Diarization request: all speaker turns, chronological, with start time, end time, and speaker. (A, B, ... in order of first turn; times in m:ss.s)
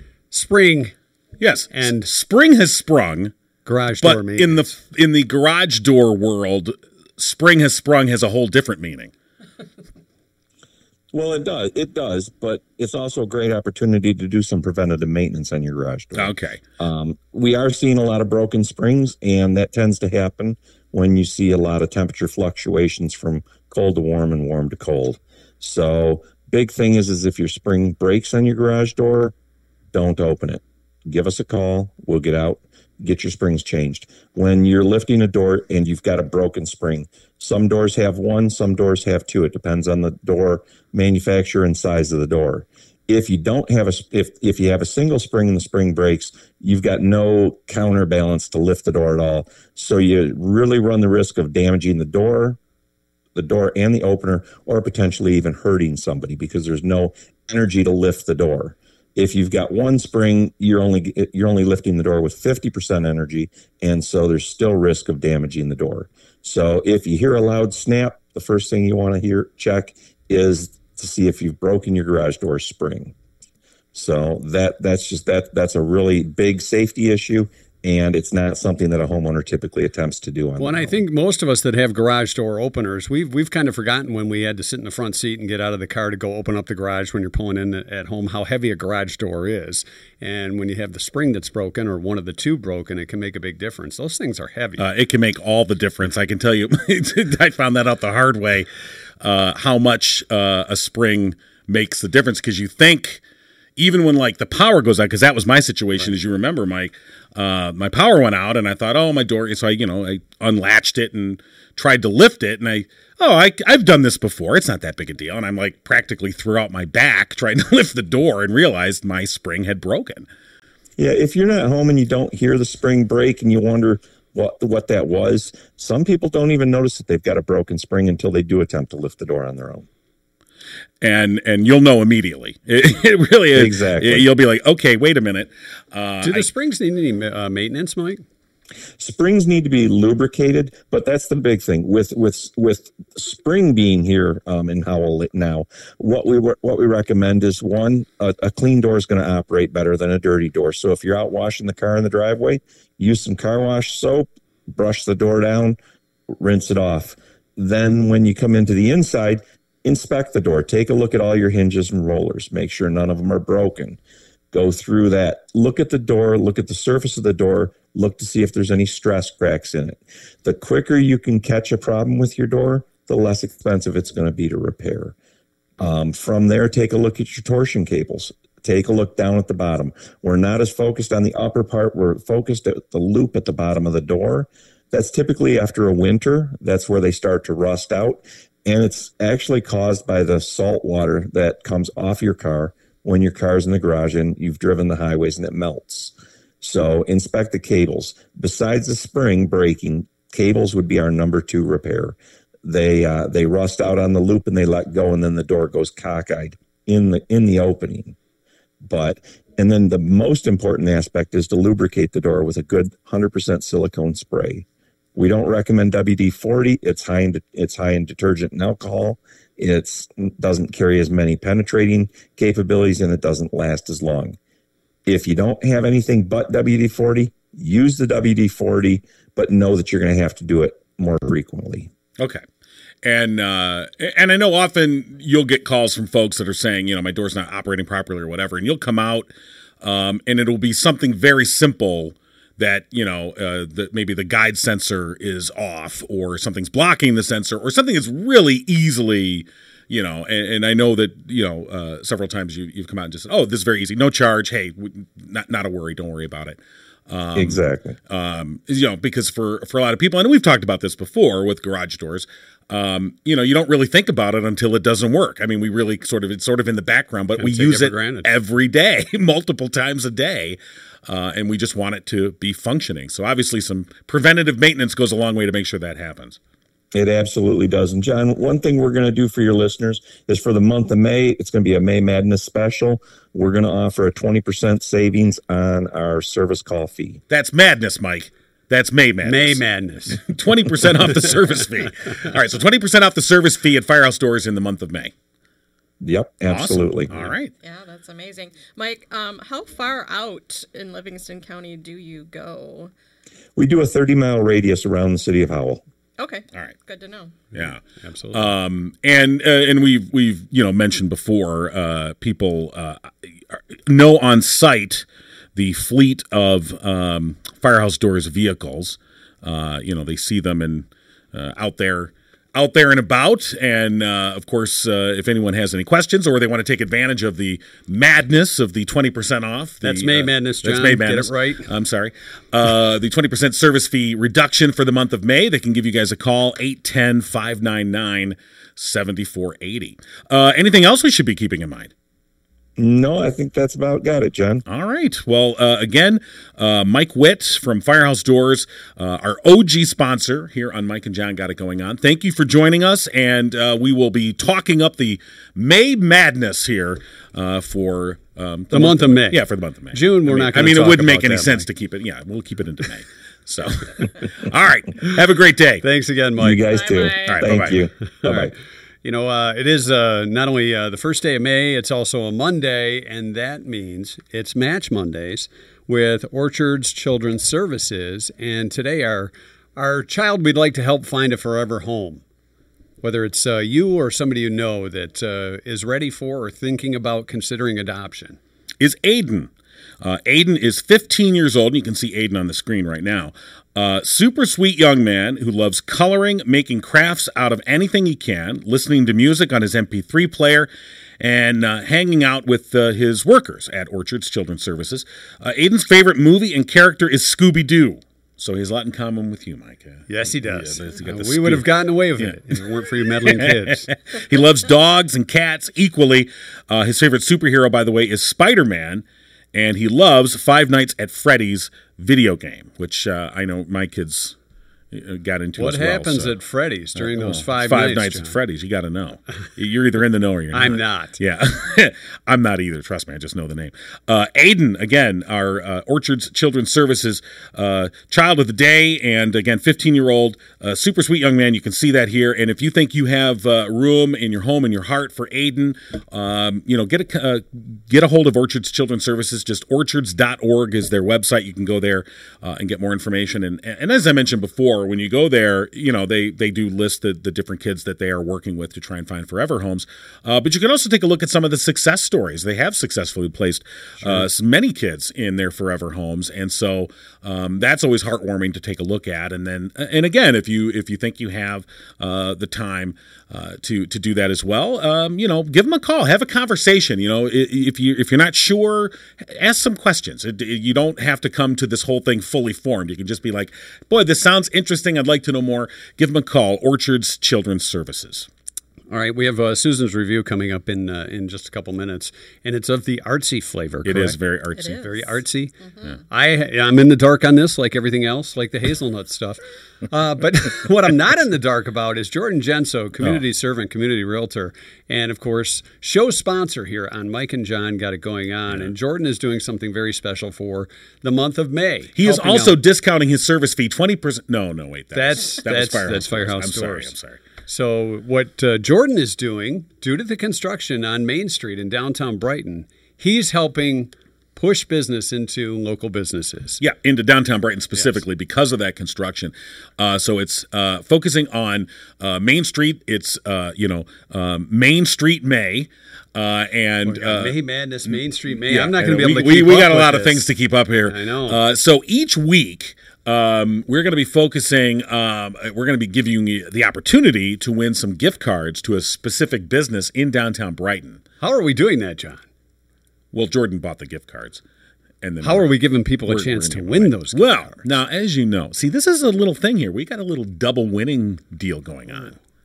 0:00.3-0:01.0 A
0:01.4-0:03.3 B
0:01.7-0:02.1 A
0:03.6-0:04.8 A
0:04.0-0:09.1 B
0:11.1-0:29.3 C
0:16.2-0:16.6 B
0:29.9-0:52.6 C
0:53.4-1:13.1 C
1:13.9-1:21.0 C
1:20.6-1:34.9 A
1:34.8-1:38.7 B
1:39.2-1:43.2 B
1:43.8-2:00.3 B
2:01.0-2:09.9 C
2:11.0-2:16.5 B
2:13.5-2:14.3 C
2:16.2-2:18.2 A
2:19.0-2:35.8 C
2:36.4-2:44.0 C
2:44.5-2:55.1 C
2:55.8-3:28.2 C
3:28.8-3:44.4 C
3:45.1-3:51.9 C
3:52.2-3:52.4 B
3:53.0-3:59.3 B
3:59.8-4:36.4 B
4:17.4-4:18.0 C
4:27.4-4:28.3 A
4:36.9-4:47.2 C
4:47.3-4:55.1 B
4:49.2-4:50.2 A
4:56.0-4:57.2 C
4:56.5-4:57.5 B
4:57.6-5:02.9 D
5:03.6-5:05.8 C
5:06.2-5:07.4 D
5:07.5-5:07.8 B
5:07.6-5:08.5 A
5:08.3-5:41.9 B
5:29.8-5:31.7 A
5:42.8-5:44.6 C
5:44.7-6:05.8 B
5:58.7-6:01.7 A
6:05.8-6:06.6 A
6:06.4-6:08.5 C
6:06.7-6:07.7 D
6:07.3-6:07.8 B
6:08.2-6:08.5 A
6:09.0-6:22.2 A
6:23.0-6:28.4 A
6:28.8-6:29.5 B
6:30.0-6:40.7 B
6:41.2-6:52.4 B
6:50.1-6:53.9 A
6:53.2-7:04.4 B
7:04.9-7:06.4 B
7:05.6-7:08.4 A
7:07.0-8:08.3 B
7:10.5-7:11.2 A
8:08.9-8:14.2 A
8:13.8-8:14.9 B
8:14.6-8:16.0 D
8:14.7-8:15.6 A
8:16.1-8:32.6 A
8:32.0-8:37.2 B
8:34.9-8:36.9 A
8:37.5-8:46.6 A
8:46.6-8:57.4 B
8:56.8-9:00.3 A
8:57.9-9:11.0 B
9:00.9-9:01.4 A
9:11.2-9:12.2 A
9:13.1-9:14.4 B
9:15.0-9:15.5 B
9:15.2-9:17.6 A
9:16.0-9:22.2 B